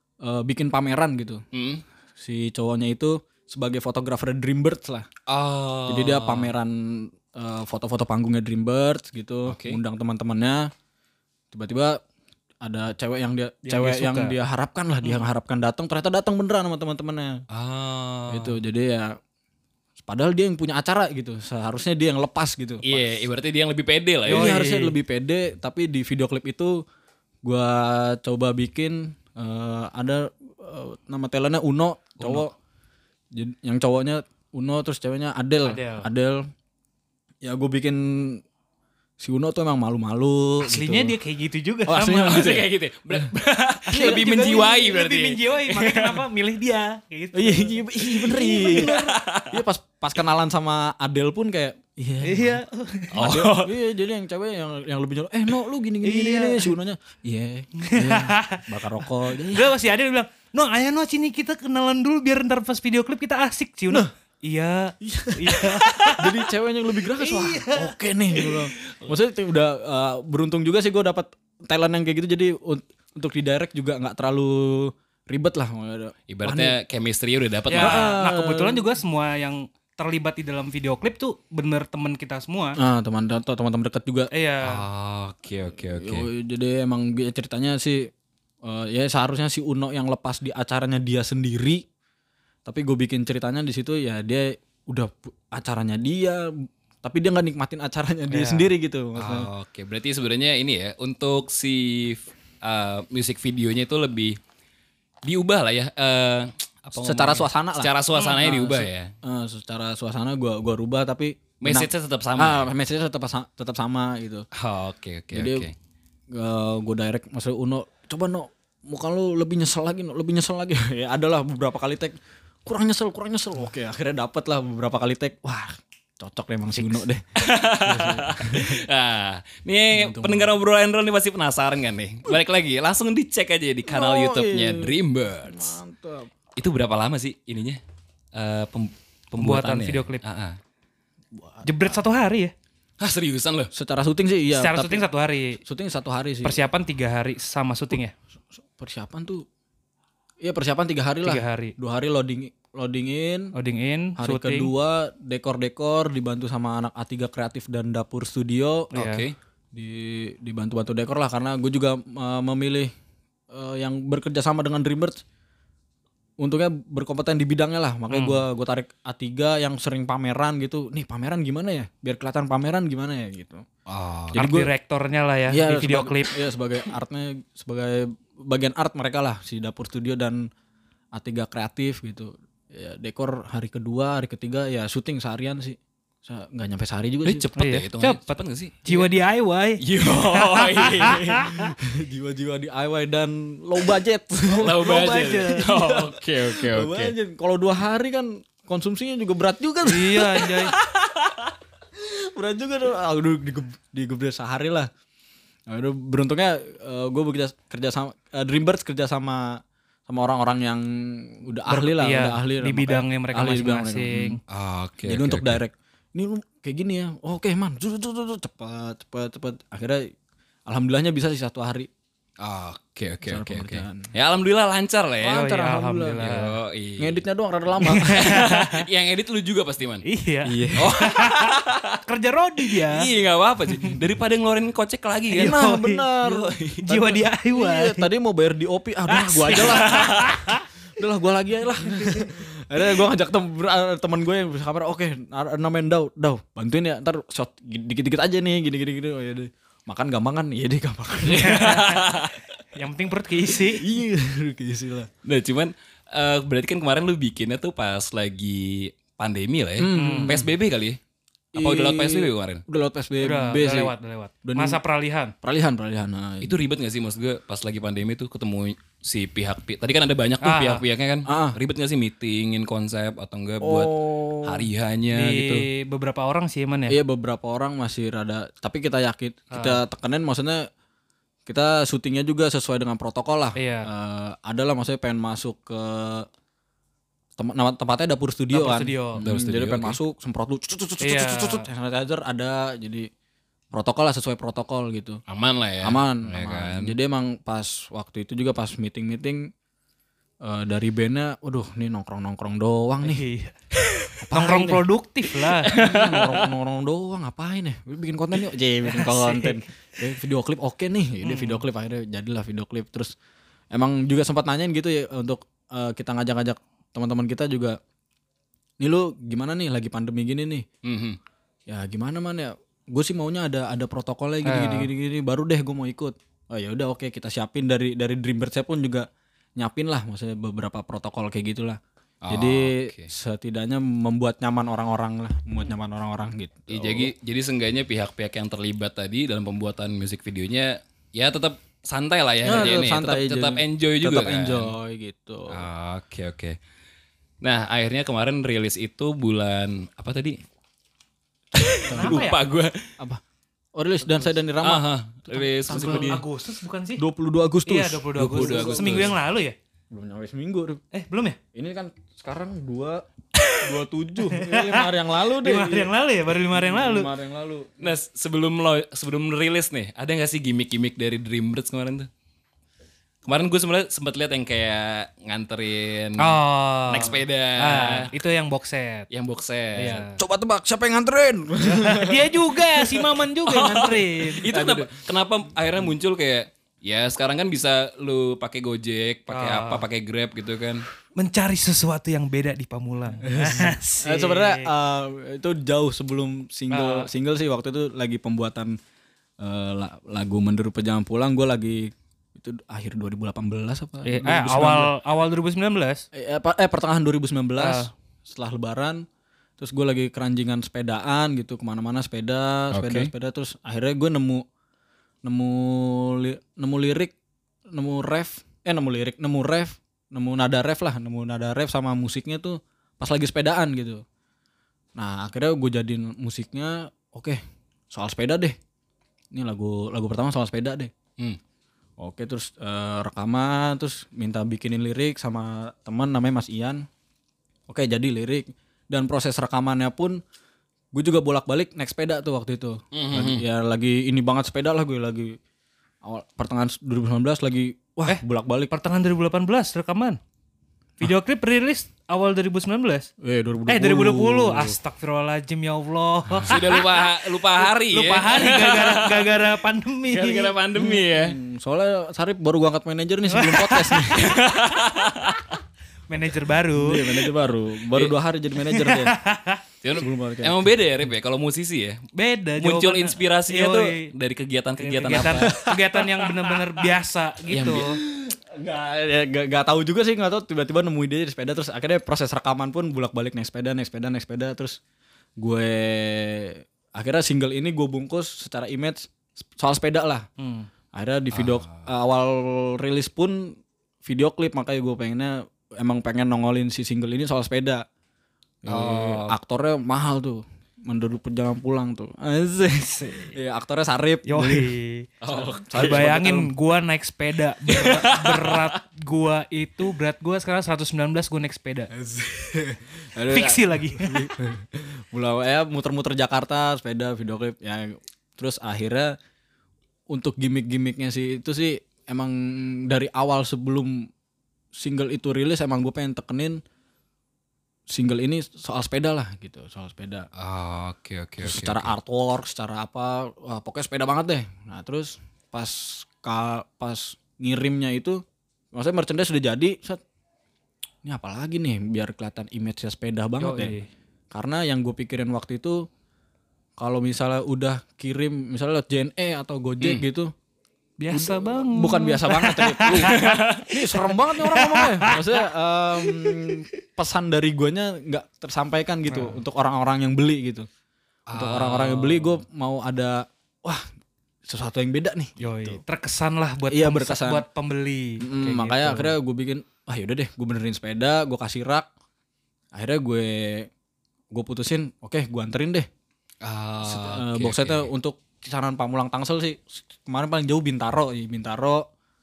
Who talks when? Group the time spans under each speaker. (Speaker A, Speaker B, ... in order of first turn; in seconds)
Speaker A: 0.2-1.4, 2.2-5.1, 5.9-10.7, 11.5-12.0, 12.6-17.4, 18.3-19.2, 20.0-23.1, 24.3-26.8, 27.4-32.5, 33.3-36.5, 37.4-38.4, 39.2-41.1, 41.9-43.3, 43.9-44.6, 47.3-52.6, 53.2-59.7, 65.0-76.7, 77.7-78.9, 82.8-84.3, 85.7-88.1, 88.6-91.8, 92.7-99.5, 107.0-114.5, 115.3-115.7, 116.3-127.2, 127.8-128.8, 129.9-130.6, 133.9-136.3, 141.3-141.7, 143.7-145.1, 145.6-146.6, 148.8-149.4, 150.4-153.5, 154.2-158.9, 159.7-162.9, 163.5-165.2, 166.4-173.6, 174.3-174.7, 175.5-180.4, 181.1-187.5, 191.3-200.8, 202.0-204.9, 205.7-214.4, 215.1-220.1, 220.7-221.9, 223.2-224.1, 225.2-226.3, 227.0-228.4, 230.4-230.9, 235.4-240.3, 241.0-251.8, 253.5-255.1, 259.8-260.5, 261.5-263.9, 264.4-264.8, 265.4-266.5, 271.3-271.6, 273.6-274.7, 276.9-280.7, 281.4-286.3, 287.4-293.1, 293.7-295.2, 295.8-299.4, 300.4-303.2, 304.2-304.8, 305.7-313.1, 313.7-317.8, 318.8-320.6, 321.7-331.8, 332.3-337.1, 342.4-345.6, 351.9-352.3, 353.7-356.2, 357.0-359.1, 359.9-360.8, 361.5-363.0, 363.6-367.9, 380.1-384.9, 393.2-398.7, 399.4-404.9, 406.1-409.0, 409.6-414.4, 415.2-417.1, 417.7-424.0, 424.9-427.4, 427.9-428.6, 429.3-430.9, 432.0-436.8, 437.7-440.2, 440.9-445.4, 446.0-448.7, 453.2-454.8, 460.8-464.3, 466.7-469.1, 469.9-470.6, 475.2-476.8, 478.0-484.8, 485.4-490.3, 490.9-497.8, 498.6-504.7, 505.3-506.5, 511.9-519.1, 520.1-524.1, 524.7-526.6, 527.9-530.3, 531.4-538.2, 538.7-540.0, 541.0-543.8, 544.3-545.8, 546.8-550.3, 551.1-560.7, 561.3-563.8, 564.5-565.8, 566.7-567.4, 568.2-571.9, 572.7-573.7, 574.3-575.9, 576.8-581.9
Speaker B: 1.5-1.8, 5.3-6.5, 9.5-9.8, 17.5-18.6, 22.8-24.5, 32.2-32.5, 42.2-46.2, 48.6-49.6, 53.1-53.8, 76.3-78.1, 84.6-86.3, 99.2-104.4, 105.2-109.1, 111.6-112.7, 114.5-115.7, 127.3-135.8, 136.6-137.8, 138.3-140.6, 143.0-143.7, 158.9-159.3, 173.9-174.5, 187.2-189.1, 189.8-191.4, 194.5-197.1, 214.5-215.6, 222.4-225.4, 226.2-227.2, 228.0-230.0, 230.8-232.0, 232.6-235.6, 236.2-236.9, 239.6-240.3, 251.2-252.4, 255.2-261.0, 261.6-262.6, 266.4-275.7, 289.2-290.0, 295.3-296.9, 305.6-306.5, 320.8-321.2, 332.2-333.1, 336.7-344.7, 345.5-346.6, 347.4-350.4, 351.5-352.9, 354.6-356.2, 358.2-359.1, 367.8-372.1, 373.2-378.1, 379.1-380.1, 383.4-390.8, 412.7-413.1, 442.9-443.4, 456.4-459.4, 460.1-461.4, 464.1-465.6, 469.8-472.0, 472.6-475.6, 477.5-477.9, 491.3-491.9, 498.6-499.4, 505.2-506.0, 507.7-508.7, 530.4-531.9, 552.8-553.7, 561.3-562.4, 576.4-577.9
Speaker C: 13.6-14.3, 24.3-25.0, 35.6-36.1, 40.6-42.6, 43.9-49.1, 52.2-53.2, 56.0-56.8, 57.8-58.6, 59.4-66.4, 67.2-68.6, 77.7-82.8, 84.3-84.8, 98.3-98.7, 108.1-108.4, 139.4-140.2, 141.6-142.5, 144.5-145.6, 146.4-148.1, 151.2-151.7, 153.5-154.7, 158.9-159.2, 168.1-168.4, 174.3-176.3, 187.6-191.7, 194.7-195.7, 199.8-200.7, 211.7-214.4, 225.2-226.5, 227.8-228.8, 230.1-233.1, 235.3-236.1, 236.8-238.1, 239.1-240.6, 241.9-242.3, 251.4-253.9, 259.9-260.4, 263.2-265.3, 270.4-270.8, 275.1-277.0, 279.5-279.8, 283.6-283.9, 288.5-289.2, 291.0-291.6, 303.0-303.5, 304.3-305.7, 308.9-309.6, 311.2-311.6, 324.4-324.9, 351.9-352.4, 355.7-357.0, 357.7-359.6, 360.9-361.4, 363.4-367.1, 376.2-379.1, 379.7-380.2, 381.6-384.5, 389.3-389.8, 391.1-394.7, 396.7-397.1, 404.0-406.0, 407.6-407.9, 448.1-450.2, 451.0-453.1, 453.7-460.6, 463.3-464.1, 466.1-467.3, 468.6-469.6, 472.1-474.1, 474.8-478.0, 490.4-490.7, 502.9-503.3, 504.3-505.1, 505.7-511.9, 513.3-514.2, 543.4-543.9, 551.0-555.4, 556.0-556.6, 559.1-559.4, 565.4-569.1